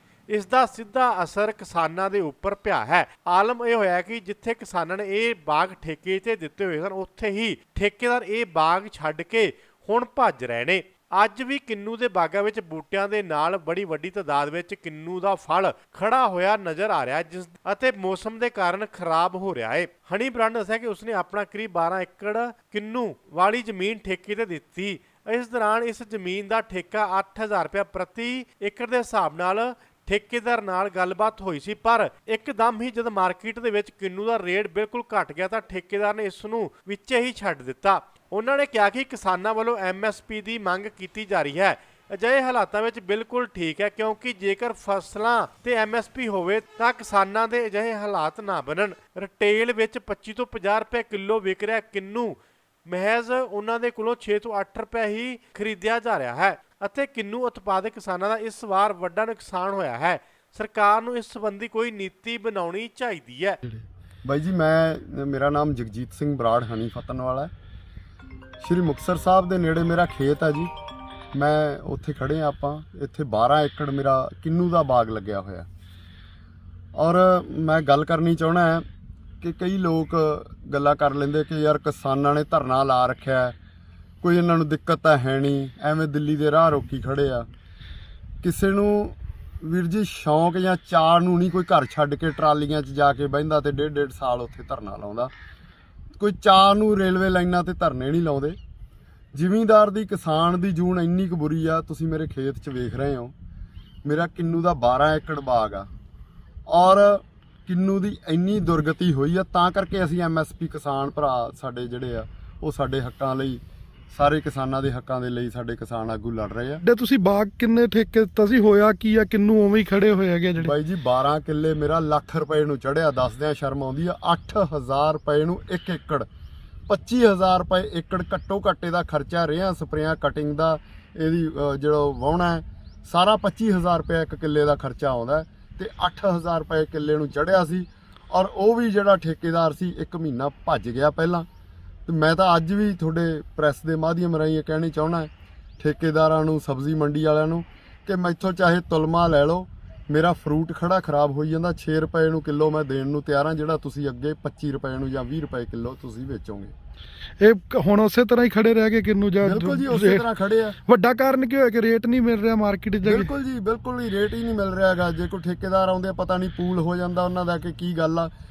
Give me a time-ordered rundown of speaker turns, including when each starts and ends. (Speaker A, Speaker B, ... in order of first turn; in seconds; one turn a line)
Speaker A: 0.3-63.6
Speaker B: 64.2-67.5
Speaker B: 68.6-70.7
Speaker B: 71.3-75.7
Speaker B: 76.9-78.8
Speaker B: 79.4-83.5
Speaker B: 84.2-87.5
Speaker B: 88.4-95.3
Speaker B: 96.2-98.6
Speaker B: 99.3-103.3
Speaker B: 104.0-105.9
Speaker B: 106.7-116.8
Speaker C: 116.8-120.7
Speaker B: 120.5-126.2
Speaker B: 126.9-141.4
Speaker B: 142.1-156.7
Speaker C: 157.4-160.2
Speaker B: 159.4-160.8
Speaker C: 160.8-163.3
Speaker B: 163.0-168.3